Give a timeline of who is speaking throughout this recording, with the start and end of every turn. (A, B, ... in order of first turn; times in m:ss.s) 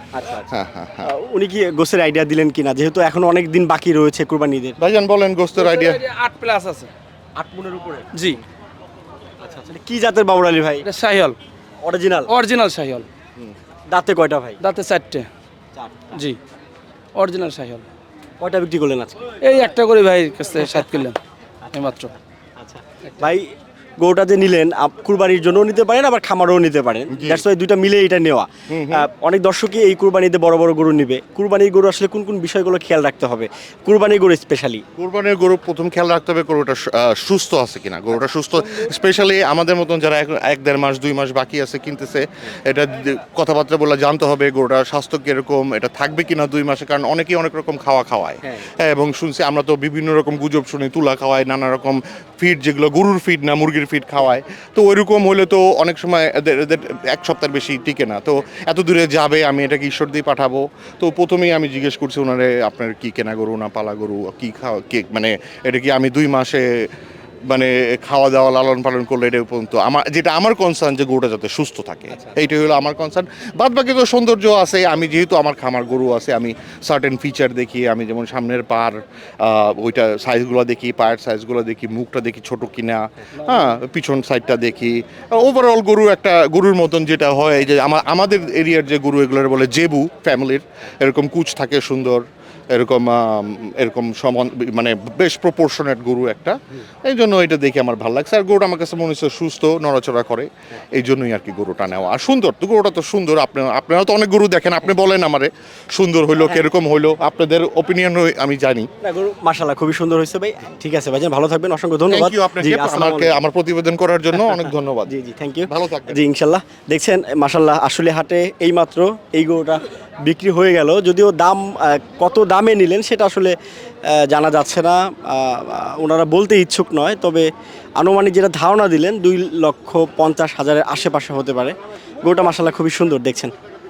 0:00.1-0:00.5 A
0:00.5-0:01.1 B
0:01.0-0:04.8 A
0:04.8-0:06.0 B
0:06.0-0:06.9 C
0:07.4-0:08.4 A
0:09.4-0:10.9 A
0:10.9-0:11.4 C
0:11.8-0:12.4 A
0:12.3-0:13.1 C
0:13.9-0:14.6 A
0:14.6-0:15.3 C
0:15.8-0:16.3 A
0:17.2-0:17.8 C
0:18.4-0:19.4 A
0:19.4-0:21.2 C
0:21.6-0:34.8 A
0:21.7-0:22.1 C
0:27.1-0:27.5 B
0:28.7-0:29.1 B
0:35.0-1:06.9 B
0:48.4-0:48.7 A
1:07.5-1:48.9 B
1:12.1-1:12.4 A
1:46.4-1:46.7 A
1:49.0-1:53.4 A
1:52.1-1:55.1 B
1:54.4-2:13.5 A
1:55.7-1:56.2 B